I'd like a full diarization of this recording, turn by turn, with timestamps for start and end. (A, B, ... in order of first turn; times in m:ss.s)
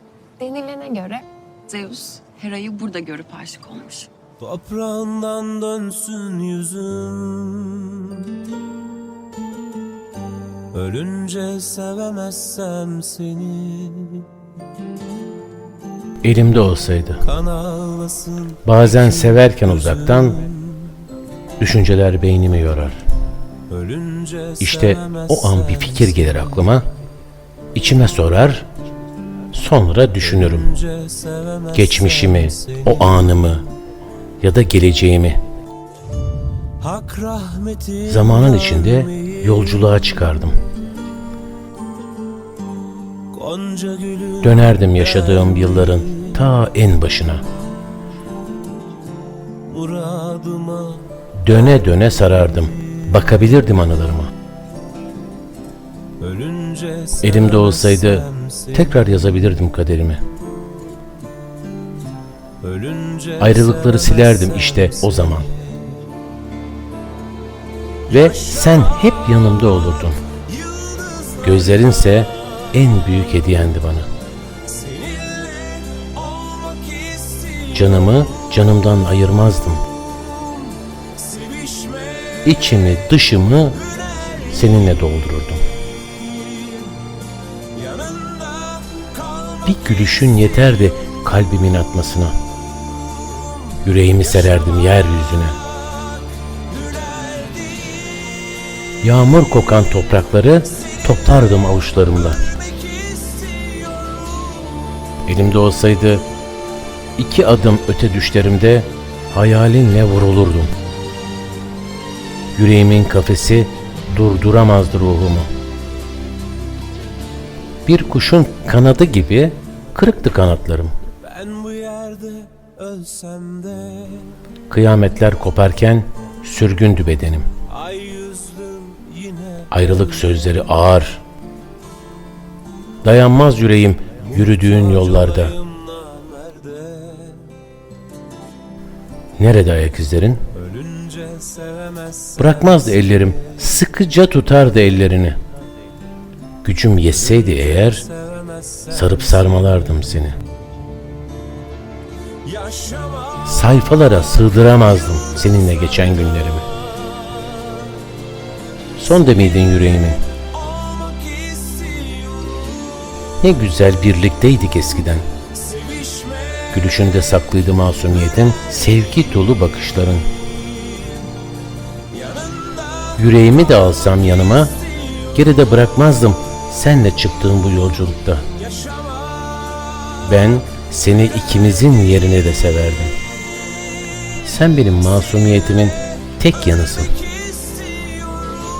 0:00.4-0:04.1 A
0:04.4-0:08.3 B
0:10.7-0:14.3 B
0:16.2-0:17.3 C
0:17.3-0:19.5 B
0:18.6-0:20.5 C
0:21.6-0:23.0 C
0:23.7-0:25.9 B
0:24.6-0:26.9 C
0:27.7-0:28.7 C
0:29.5-0:30.8 C
0:31.0-0:32.5 B
0:31.7-0:33.6 C
0:34.4-0:35.4 C
0:36.8-0:39.0 B
0:38.0-0:40.5 C
0:43.3-0:44.5 B
0:44.4-0:47.4 C
0:49.7-0:51.1 B
0:51.4-0:54.3 C
0:56.2-0:58.7 B
0:57.2-1:00.2 C
1:02.6-1:05.1 B
1:03.4-1:05.5 C
1:08.1-1:10.2 C
1:10.6-1:11.4 B
1:11.4-1:14.1 C
1:14.7-1:17.7 B
1:17.7-1:19.8 C
1:21.2-1:22.4 B
1:22.4-1:23.8 C
1:24.4-1:25.6 C
1:27.8-1:29.7 B
1:29.6-1:32.4 C
1:33.8-1:35.6 C
1:36.7-1:38.5 B
1:39.0-1:42.4 C
1:42.7-1:44.7 B
1:45.3-1:46.2 C
1:47.2-1:50.7 C
1:52.6-1:55.5 C
1:57.9-2:00.9 C
2:01.2-2:04.4 B
2:04.7-2:07.5 C
2:07.7-2:09.8 B
2:09.7-2:11.2 C
2:13.0-2:15.6 C
2:14.4-2:17.5 B
2:19.4-2:20.4 C
2:20.6-2:22.4 B
2:22.4-2:25.4 C
2:26.6-2:28.1 C
2:27.5-2:28.9 B
2:28.9-2:30.4 C
2:32.4-2:33.4 B
2:33.4-2:36.6 C
2:39.0-2:40.2 C
2:40.6-2:42.5 B
2:43.4-2:45.3 C
2:45.6-2:46.6 B
2:46.7-2:50.2 C
2:52.1-2:53.1 B
2:53.2-2:54.8 C
2:55.3-2:58.5 C
2:58.6-3:00.1 B
3:00.2-3:03.1 C
3:04.4-3:07.2 C
3:07.3-3:08.6 B